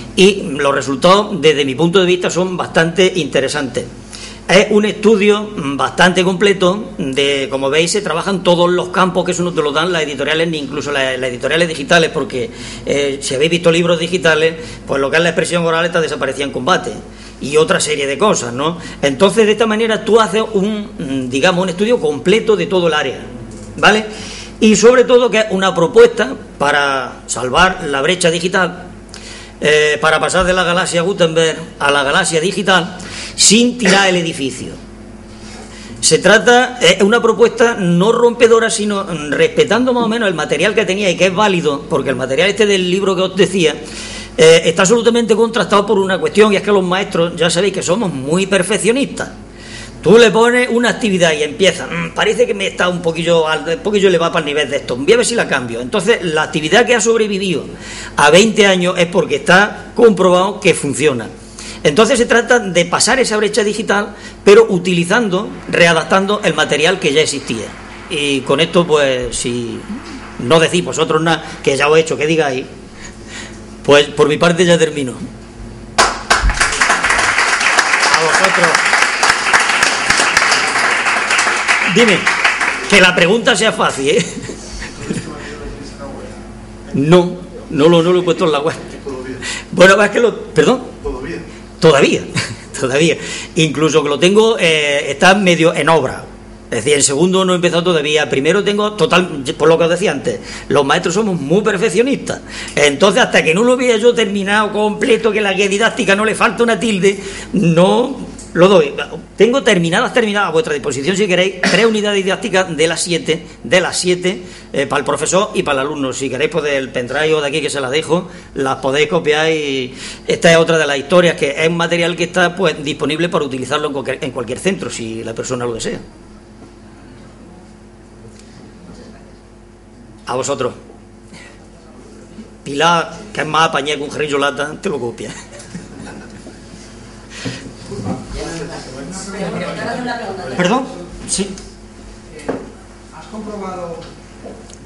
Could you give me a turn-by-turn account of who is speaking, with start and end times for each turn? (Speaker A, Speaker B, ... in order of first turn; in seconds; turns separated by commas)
Speaker A: 0.2-3.9, Speaker A: 4.5-24.1, Speaker A: 24.6-28.9, Speaker A: 29.6-34.8, Speaker A: 36.0-43.8, Speaker A: 44.4-49.3, Speaker A: 50.0-61.3, Speaker A: 61.8-72.7, Speaker A: 73.8-75.2, Speaker A: 78.0-78.8, Speaker A: 81.8-82.3, Speaker A: 82.8-84.5, Speaker B: 84.9-86.5, Speaker A: 86.9-88.9, Speaker B: 88.9-89.4, Speaker A: 89.7-90.9, Speaker B: 91.0-91.5, Speaker A: 91.8-126.0, Speaker A: 130.3-130.8, Speaker A: 132.7-135.3, Speaker C: 137.9-140.9, Speaker A: 140.6-141.5, Speaker C: 142.3-144.1